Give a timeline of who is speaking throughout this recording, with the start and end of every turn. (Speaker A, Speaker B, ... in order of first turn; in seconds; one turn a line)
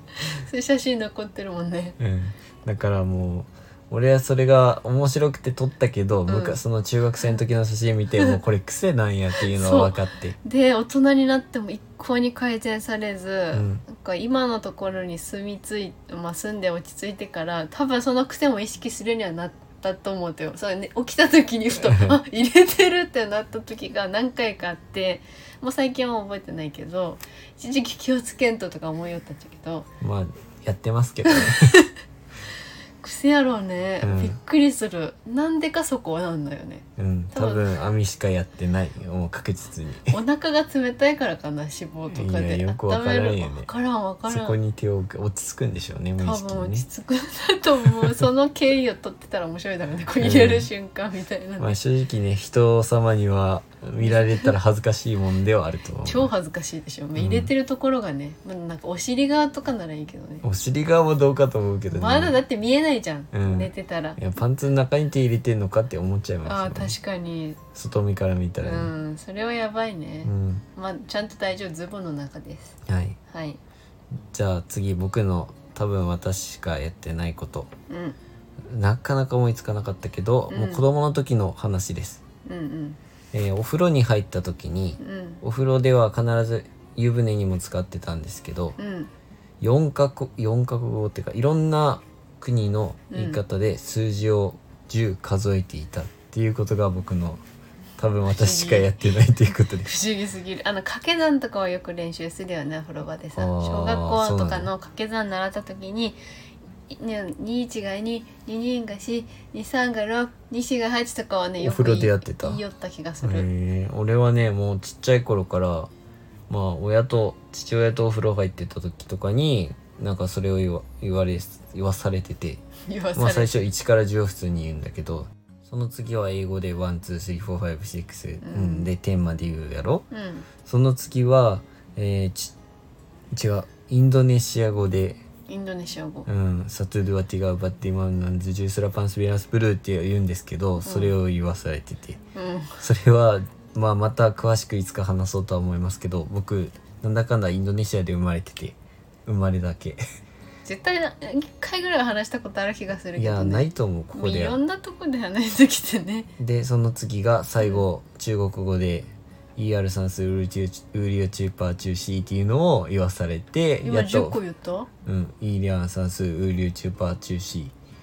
Speaker A: 0.2-2.0
Speaker B: 2.0-10.4
Speaker A: 6.3-6.6
Speaker A: 9.5-29.9
Speaker B: 13.5-13.8
Speaker B: 21.8-22.2
Speaker B: 30.0-31.8
Speaker A: 31.3-31.9
Speaker A: 33.0-37.7
Speaker B: 34.0-34.4
Speaker B: 37.0-40.2
Speaker A: 40.1-44.6
Speaker B: 42.1-43.7
Speaker B: 44.3-46.9
Speaker A: 46.2-51.8
Speaker B: 50.2-50.7
Speaker B: 51.6-56.3
Speaker A: 54.0-54.5
Speaker A: 56.0-60.5
Speaker B: 57.2-57.5
Speaker B: 60.4-62.4
Speaker A: 61.9-64.2
Speaker B: 63.3-67.0
Speaker A: 66.5-67.6
Speaker B: 67.8-68.9
Speaker A: 68.6-73.6
Speaker B: 70.2-70.6
Speaker B: 72.9-73.2
Speaker B: 74.3-77.7
Speaker A: 77.9-78.2
Speaker B: 78.7-82.2
Speaker A: 80.5-80.8
Speaker A: 82.5-83.0
Speaker B: 83.3-88.8
Speaker A: 85.0-85.4
Speaker A: 88.8-89.1
Speaker B: 89.6-97.4
Speaker A: 93.1-93.4
Speaker B: 98.0-99.9
Speaker A: 98.2-99.1
Speaker A: 99.7-106.2
Speaker B: 103.4-104.7
Speaker A: 106.9-113.5
Speaker B: 111.6-112.6
Speaker B: 113.2-115.9
Speaker B: 116.5-122.6
Speaker A: 122.9-123.5
Speaker B: 123.2-130.1
Speaker A: 128.4-128.9
Speaker A: 130.1-130.5
Speaker B: 130.7-132.5
Speaker B: 133.3-135.2
Speaker A: 135.5-136.3
Speaker B: 136.3-142.2
Speaker A: 140.8-141.2
Speaker A: 142.3-142.8
Speaker B: 142.8-150.0
Speaker A: 150.7-156.3
Speaker B: 153.2-154.6
Speaker B: 156.4-164.4
Speaker A: 163.8-164.9
Speaker B: 165.1-167.7